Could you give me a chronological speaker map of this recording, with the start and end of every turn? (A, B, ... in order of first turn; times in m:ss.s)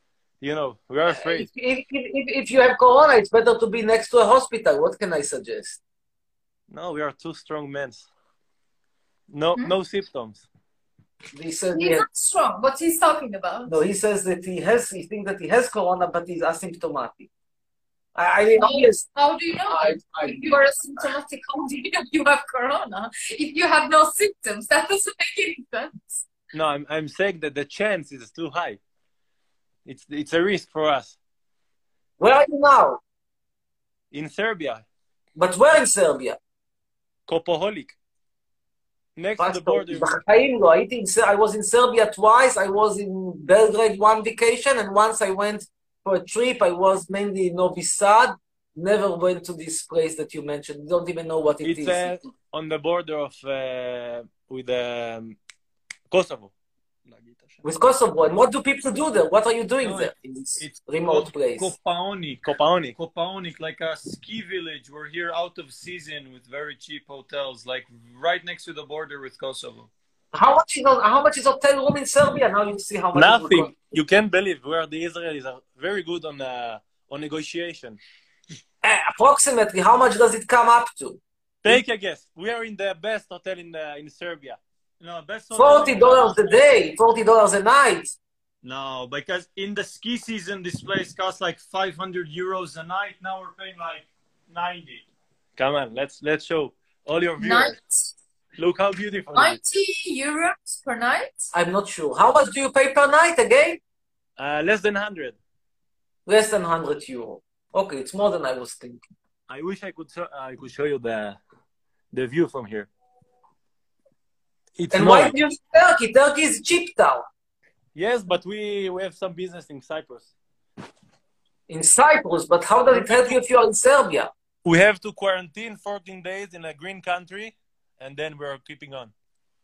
0:00.4-0:01.5 A
0:01.0-0:05.8 B
0:06.7-0:08.1 A
0:09.3-0:10.4 A
0:11.3-0:12.0 B
0:11.7-0:13.8 C
0:13.6-0:17.3 B
0:18.2-0:19.1 B
0:18.6-0:26.2 C
0:19.6-0:21.1 B
0:26.5-0:28.8 A
0:29.8-0:31.2 A
0:32.2-0:33.0 B
0:34.1-0:34.8 A
0:35.4-0:36.4 B
0:37.3-0:38.0 A
0:39.2-0:40.1 A
0:39.4-0:52.2 B
0:51.6-0:55.4 A
0:56.1-0:56.5 A
0:57.1-0:57.6 D
0:57.6-1:01.7 B
0:59.8-1:09.9 D
1:02.4-1:03.0 A
1:10.3-1:13.7 B
1:13.1-1:18.0 A
1:18.8-1:21.8 B
1:21.6-1:24.6 A
1:25.0-1:26.4 D
1:25.5-1:28.2 B
1:28.6-1:35.0 D
1:35.6-1:37.8 A
1:37.4-1:38.1 C
1:38.6-1:39.6 A
1:39.3-1:41.5 C
1:41.5-1:43.8 B
1:44.4-1:45.4 A
1:46.2-1:49.0 B
1:49.5-1:51.4 A
1:52.1-1:52.9 A
1:54.8-1:55.4 A
1:54.9-1:57.3 B
1:57.9-2:00.3 A
2:01.7-2:04.3 B
2:04.6-2:09.1 A